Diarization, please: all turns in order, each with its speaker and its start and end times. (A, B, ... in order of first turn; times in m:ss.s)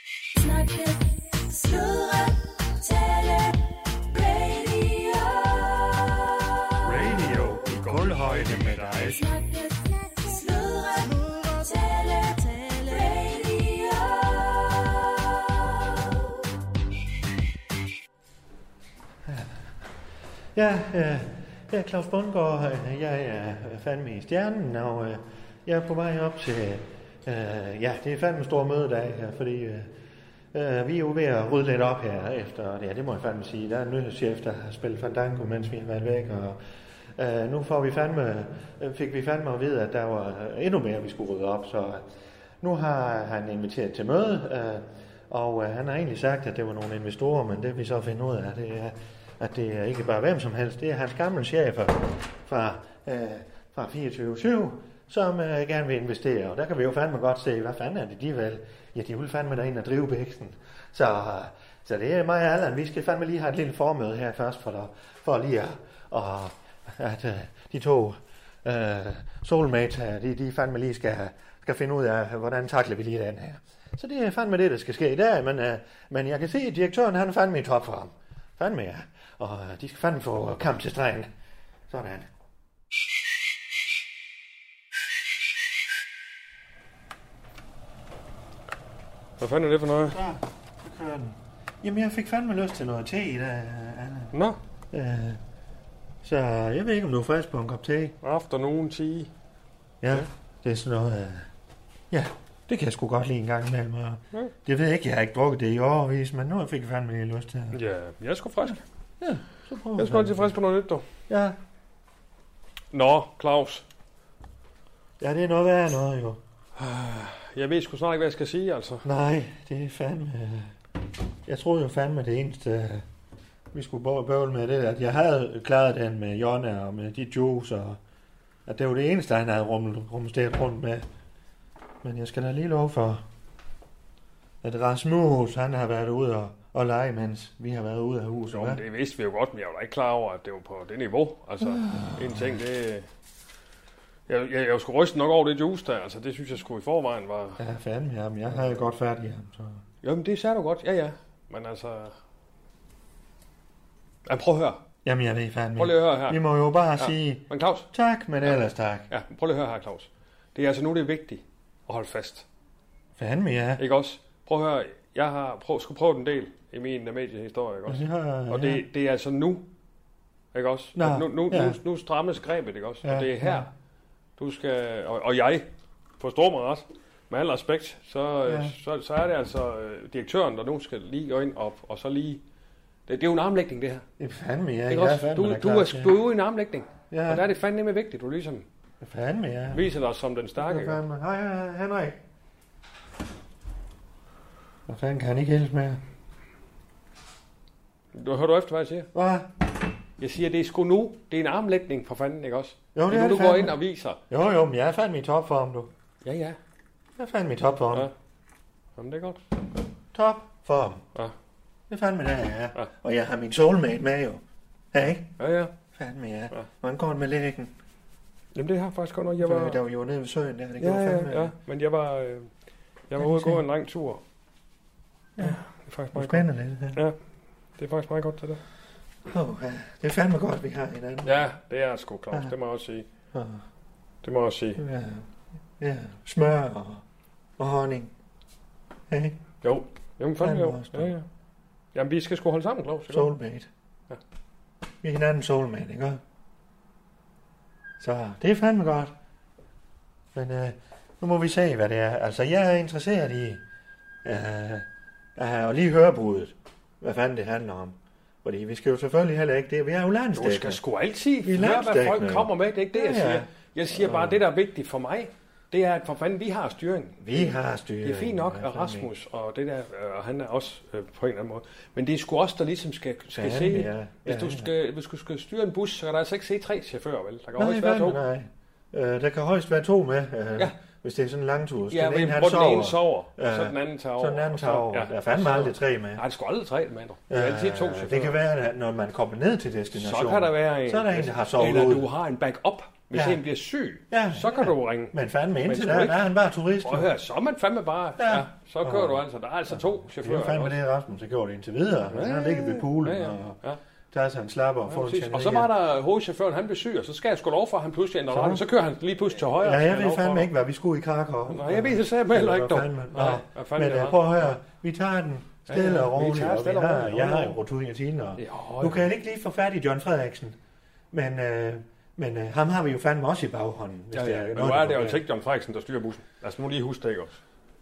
0:00.3-0:06.8 A
0:06.8-0:09.2 B
0:06.9-0:09.2 C
0:09.1-0:16.3 A
0:19.3-0:19.6 C
0:20.6-0:29.9 C
0:30.5-0:36.6 C
0:37.2-0:42.0 C
0:42.6-1:21.3 C
1:21.9-1:22.3 C
1:29.4-1:30.2 B
1:30.0-1:34.4 C
1:34.3-1:34.6 B
1:34.9-1:35.4 C
1:36.2-1:38.2 C
1:38.2-1:39.3 B
1:40.0-1:41.5 C
1:42.1-1:47.8 C
1:47.7-1:48.8 B
1:49.2-1:50.5 C
1:50.0-1:51.0 B
1:51.3-1:51.6 C
1:52.9-1:53.8 B
1:55.2-1:56.4 C
1:56.8-1:59.1 B
1:59.0-2:00.7 C
2:01.5-2:03.0 C
2:03.7-2:08.0 C
2:08.7-2:11.1 C
2:12.0-2:13.2 C
2:14.6-2:18.8 C
2:18.5-2:23.0 B
2:21.8-2:22.4 C
2:24.3-2:27.6 B
2:27.6-2:29.8 C
2:30.0-2:32.2 B
2:34.3-2:34.8 B
2:35.0-2:39.1 C
2:35.8-2:36.4 B
2:37.0-2:37.9 B
2:38.4-2:42.5 B
2:43.2-2:43.8 C
2:43.8-2:49.6 B
2:47.9-2:48.8 C
2:50.5-2:53.7 B
2:51.0-2:51.8 C
2:53.0-2:53.7 C
2:54.4-2:55.6 B
2:56.2-3:02.4 B
2:58.5-2:58.8 C
3:03.1-3:04.0 B
3:04.2-3:06.2 C
3:04.9-3:08.7 B
3:07.1-3:07.4 C
3:09.0-3:09.9 C
3:09.7-3:11.0 B
3:10.6-3:12.2 C
3:14.9-3:16.0 C
3:18.1-3:19.1 B
3:19.1-3:19.5 C
3:20.2-3:24.2 B
3:23.0-3:23.8 C
3:24.3-3:25.9 C
3:26.2-3:26.6 B
3:27.2-3:28.1 C
3:29.0-3:29.4 B
3:30.1-3:31.0 C
3:31.9-3:35.3 C
3:35.4-3:35.7 B
3:36.0-3:37.7 C
3:38.6-3:39.8 B
3:39.4-3:41.5 C
3:40.8-3:42.5 B
3:43.1-3:44.2 B
3:43.2-3:43.6 C
3:45.4-3:47.2 B
3:46.1-3:47.0 C
3:47.8-3:48.6 B
3:49.3-3:51.4 C
3:51.2-3:53.1 B
3:53.3-3:53.6 C
3:54.2-3:54.8 B
3:54.8-3:55.3 C
3:55.8-3:57.0 C
3:57.6-3:58.1 C
3:59.1-3:59.4 C
3:59.6-4:01.3 B
4:00.4-4:01.1 C
4:02.0-4:03.3 B
4:03.1-4:03.7 C
4:05.0-4:06.2 C
4:08.0-4:09.1 C
4:10.4-4:13.6 C
4:14.2-4:20.8 C
4:20.4-4:27.4 B
4:21.4-4:24.4 C
4:27.2-4:29.1 C
4:28.0-4:38.2 B
4:33.4-4:34.7 C
4:37.6-4:46.2 C
4:41.9-4:48.4 B
4:47.3-4:52.1 C
4:50.0-4:56.3 B
4:53.1-4:53.4 C
4:54.1-4:57.1 C
4:56.8-5:00.8 B
4:58.2-5:03.6 C
5:02.1-5:03.8 B
5:04.1-5:05.7 C
5:04.9-5:10.5 B
5:08.3-5:08.6 C
5:09.6-5:20.6 C
5:11.5-5:14.5 B
5:15.7-5:17.6 B
5:18.4-5:19.1 B
5:21.1-5:25.2 C
5:24.1-5:27.4 B